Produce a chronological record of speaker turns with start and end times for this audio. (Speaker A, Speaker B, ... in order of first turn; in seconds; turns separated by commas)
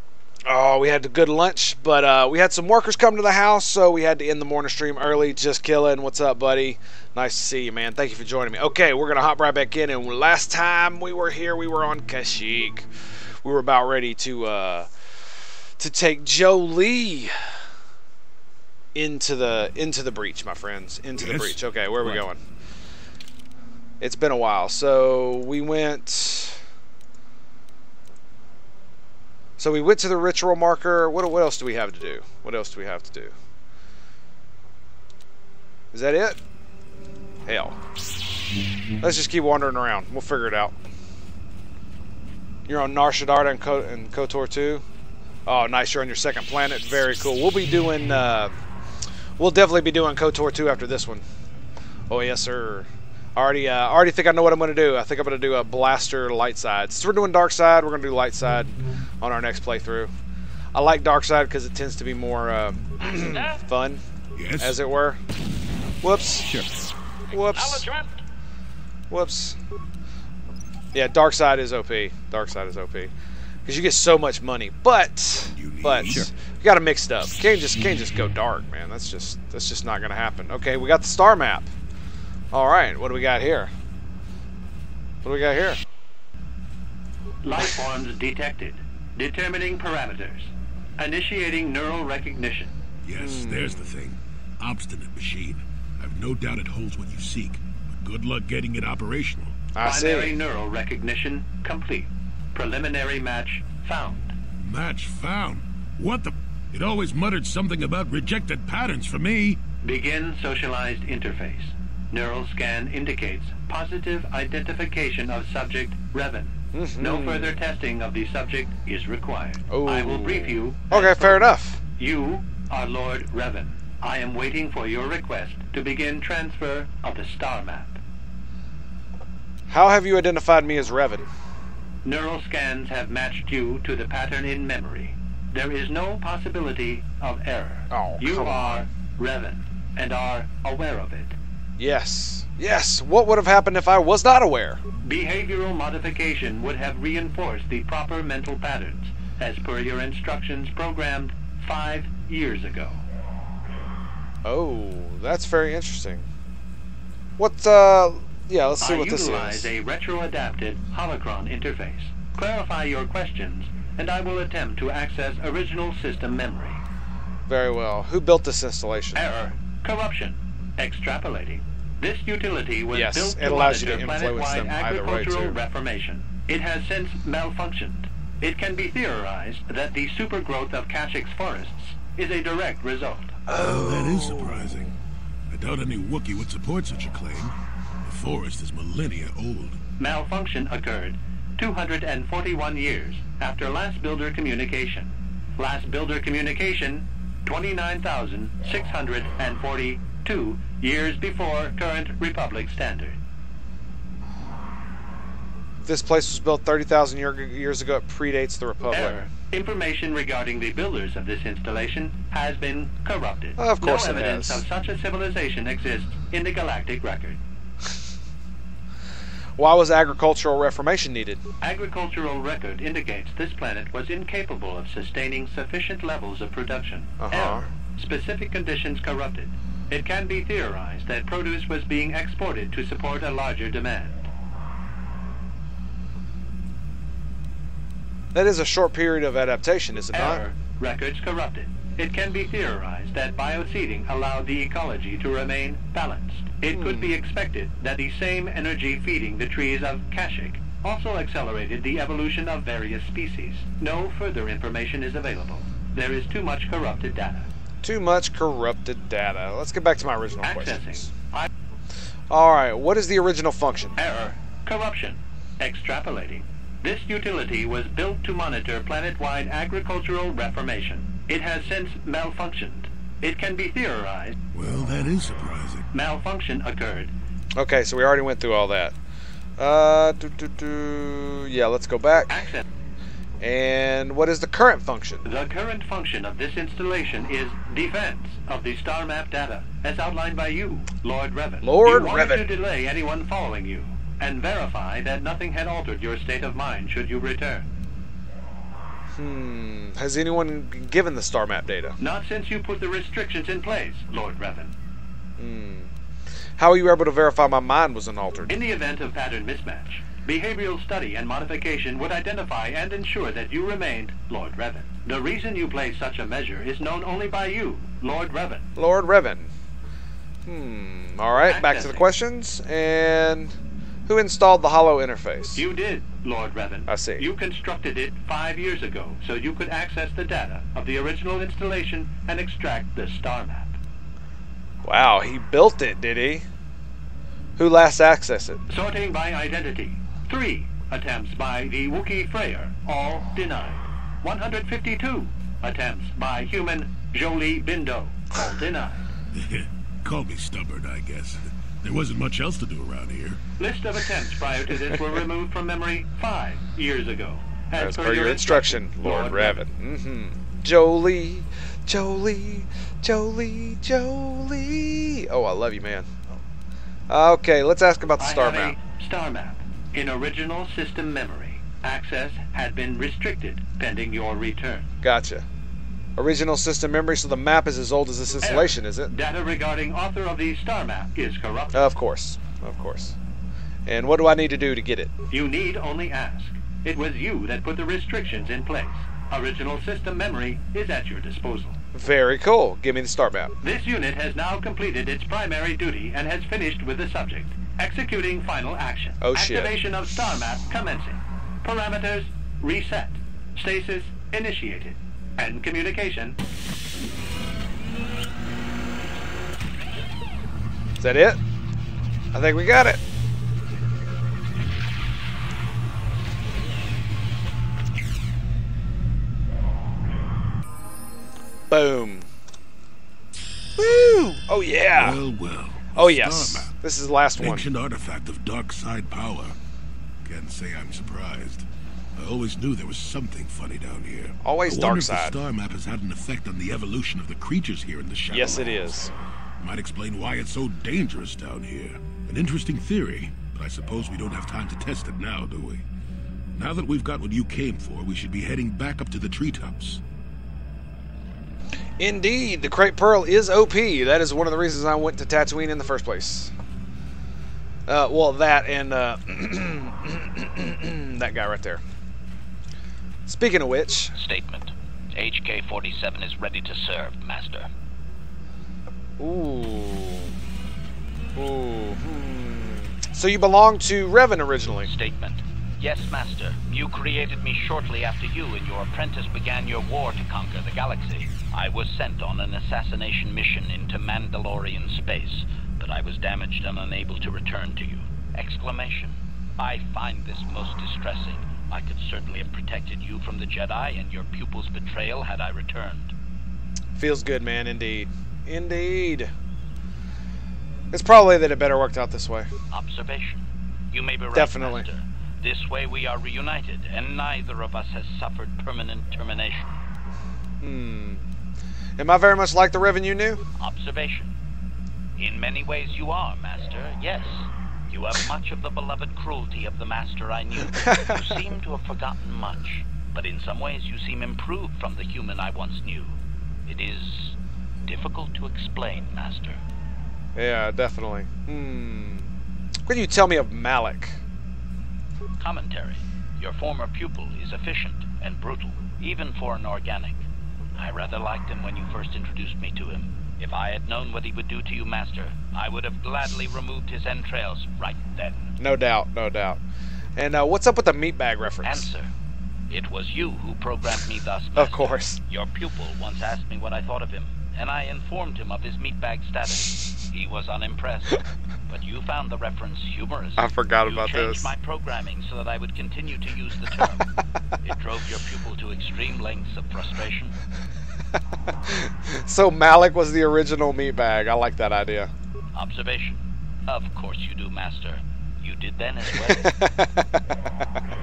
Speaker A: 0.5-12.9, Speaker A: 13.4-14.9, Speaker A: 15.8-17.3, Speaker A: 18.9-22.4, Speaker B: 21.2-21.6, Speaker A: 24.0-26.6, Speaker A: 29.6-33.3, Speaker A: 35.9-36.4, Speaker A: 37.5-37.8, Speaker A: 39.0-40.8, Speaker A: 42.7-44.8, Speaker A: 45.5-48.5, Speaker A: 49.4-51.2, Speaker A: 52.1-60.1, Speaker A: 60.7-64.0, Speaker B: 64.3-64.8, Speaker A: 64.6-65.2, Speaker A: 66.0-66.5, Speaker A: 67.3-67.9, Speaker C: 67.5-68.1, Speaker A: 69.1-69.6, Speaker A: 70.9-73.1, Speaker A: 73.6-81.7, Speaker B: 75.5-76.3, Speaker A: 82.5-83.7, Speaker A: 85.2-85.8, Speaker D: 87.4-92.7, Speaker B: 93.0-99.5, Speaker A: 93.2-94.0, Speaker A: 99.7-100.4, Speaker D: 99.8-104.3, Speaker B: 104.6-109.6, Speaker D: 109.8-128.0, Speaker A: 116.7-117.6, Speaker A: 119.7-121.8, Speaker A: 129.7-131.3, Speaker D: 132.0-141.3, Speaker A: 137.9-138.8, Speaker A: 141.8-144.8, Speaker D: 145.0-153.0, Speaker A: 154.4-156.2, Speaker A: 157.4-159.7, Speaker D: 158.8-166.8, Speaker A: 167.5-169.3, Speaker D: 169.1-183.4, Speaker A: 172.9-175.6, Speaker A: 183.5-184.7, Speaker B: 183.5-184.9, Speaker B: 185.5-189.8, Speaker D: 190.0-203.2, Speaker A: 205.8-209.2, Speaker D: 208.9-217.4, Speaker A: 213.6-214.6, Speaker A: 219.6-221.4, Speaker D: 221.6-234.3, Speaker A: 227.2-227.7, Speaker A: 238.3-240.4, Speaker D: 240.1-257.5, Speaker A: 246.7-247.2, Speaker A: 257.8-261.1, Speaker D: 260.4-261.5, Speaker A: 262.3-263.9, Speaker D: 264.0-274.4, Speaker B: 274.5-275.9, Speaker D: 275.9-277.1, Speaker A: 277.6-278.9, Speaker A: 279.6-282.4, Speaker D: 282.3-282.6, Speaker A: 283.4-285.3, Speaker D: 285.2-297.7, Speaker A: 291.6-292.5, Speaker A: 299.1-302.0, Speaker D: 302.0-304.7, Speaker A: 305.4-305.9, Speaker A: 306.6-308.6, Speaker D: 308.5-318.6, Speaker A: 318.8-319.5, Speaker A: 320.4-323.5, Speaker D: 321.5-322.1, Speaker A: 324.1-325.6, Speaker D: 325.5-333.8, Speaker A: 326.9-327.3, Speaker A: 334.8-336.4, Speaker A: 337.6-338.6, Speaker D: 338.7-349.0, Speaker B: 349.3-353.4, Speaker D: 353.6-359.6, Speaker A: 357.8-366.2, Speaker A: 367.1-368.8, Speaker D: 368.2-374.9, Speaker A: 375.0-375.4, Speaker A: 376.1-379.1, Speaker D: 378.4-381.9, Speaker A: 381.7-383.1, Speaker A: 383.9-385.1, Speaker D: 385.3-391.8, Speaker A: 391.9-393.6, Speaker D: 393.6-406.4, Speaker A: 399.2-399.8, Speaker A: 411.0-411.4, Speaker A: 412.3-413.0, Speaker A: 421.7-422.3, Speaker A: 423.8-425.2, Speaker B: 424.9-426.7, Speaker A: 425.9-427.7, Speaker B: 427.4-429.6, Speaker B: 430.2-439.0, Speaker A: 434.4-435.4, Speaker A: 438.3-439.1, Speaker B: 439.6-445.8, Speaker B: 446.5-450.0, Speaker A: 452.0-456.5, Speaker A: 457.9-461.8, Speaker A: 463.2-464.1, Speaker C: 464.1-467.7, Speaker A: 469.2-470.3, Speaker A: 471.4-474.9, Speaker C: 474.8-496.1, Speaker A: 496.9-499.3, Speaker A: 500.9-502.5, Speaker C: 502.7-509.8, Speaker A: 504.3-504.9, Speaker A: 510.6-511.2, Speaker A: 512.0-513.4, Speaker C: 513.6-514.3, Speaker C: 515.2-526.1, Speaker A: 520.7-521.4, Speaker C: 526.7-529.6, Speaker A: 530.4-532.3, Speaker A: 532.9-534.2, Speaker C: 535.4-540.2, Speaker C: 540.8-548.5, Speaker A: 548.6-549.6, Speaker A: 550.1-551.9, Speaker C: 551.6-552.1, Speaker C: 552.7-567.1, Speaker A: 554.5-555.2, Speaker A: 563.4-564.5, Speaker C: 567.6-570.3, Speaker A: 571.7-575.1, Speaker C: 575.5-579.5, Speaker A: 579.1-580.2